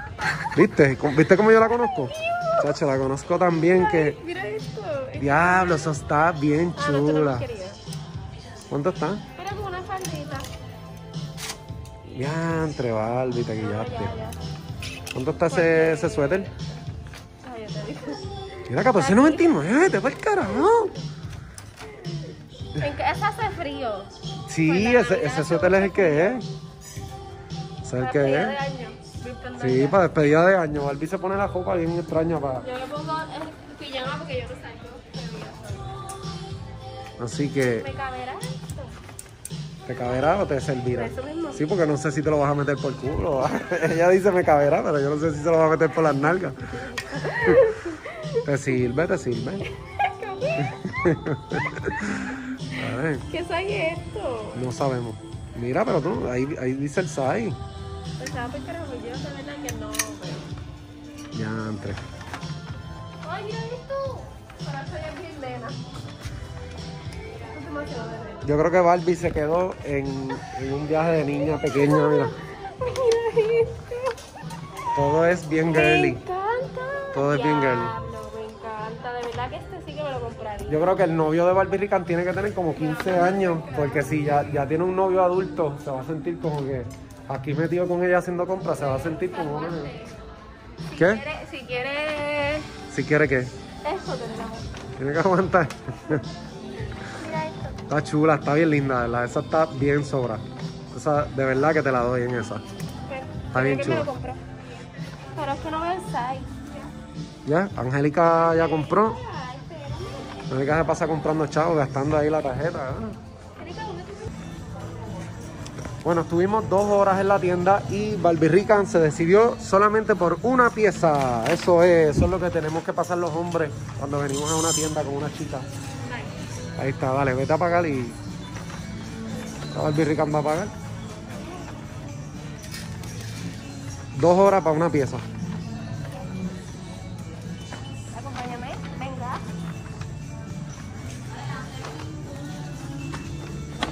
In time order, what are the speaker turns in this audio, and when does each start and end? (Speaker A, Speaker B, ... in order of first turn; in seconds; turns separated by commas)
Speaker A: 0.5-4.2, Speaker B: 3.7-5.9, Speaker A: 5.2-7.4, Speaker B: 6.8-7.8, Speaker A: 8.7-9.2, Speaker B: 9.3-10.5, Speaker A: 12.1-14.1, Speaker B: 13.6-14.4, Speaker A: 15.1-16.5, Speaker B: 15.4-16.6, Speaker B: 17.4-19.7, Speaker A: 18.7-20.9, Speaker B: 22.7-26.4, Speaker A: 24.5-26.4, Speaker A: 27.8-28.6, Speaker B: 28.0-30.0, Speaker A: 29.6-32.6, Speaker B: 32.6-36.0, Speaker A: 37.2-37.9, Speaker B: 37.6-39.0, Speaker A: 39.9-46.6, Speaker B: 40.9-41.8, Speaker B: 46.6-48.5, Speaker A: 47.3-47.6, Speaker A: 48.4-49.6, Speaker B: 49.6-50.9, Speaker A: 50.6-53.2, Speaker B: 53.3-54.6, Speaker A: 54.5-57.6, Speaker B: 58.2-60.5, Speaker A: 61.3-62.0, Speaker B: 63.2-65.9, Speaker B: 67.3-68.5, Speaker A: 68.4-72.3, Speaker B: 71.5-74.2, Speaker A: 74.9-76.2, Speaker B: 75.7-80.8, Speaker A: 77.1-77.9, Speaker A: 80.7-90.0, Speaker B: 82.7-84.4, Speaker B: 88.8-90.2, Speaker B: 90.9-92.8, Speaker A: 91.0-91.2, Speaker A: 92.9-93.5, Speaker B: 93.8-94.7, Speaker A: 95.0-96.2, Speaker B: 97.0-97.8, Speaker A: 97.9-102.6, Speaker B: 103.1-104.4, Speaker A: 103.5-104.1, Speaker B: 105.3-106.9, Speaker A: 107.4-109.2, Speaker B: 108.3-110.5, Speaker A: 110.5-113.2, Speaker B: 113.6-114.3, Speaker A: 116.0-125.7, Speaker B: 126.0-126.3, Speaker A: 126.8-128.2, Speaker A: 129.7-130.7, Speaker A: 134.2-135.2, Speaker B: 138.1-139.4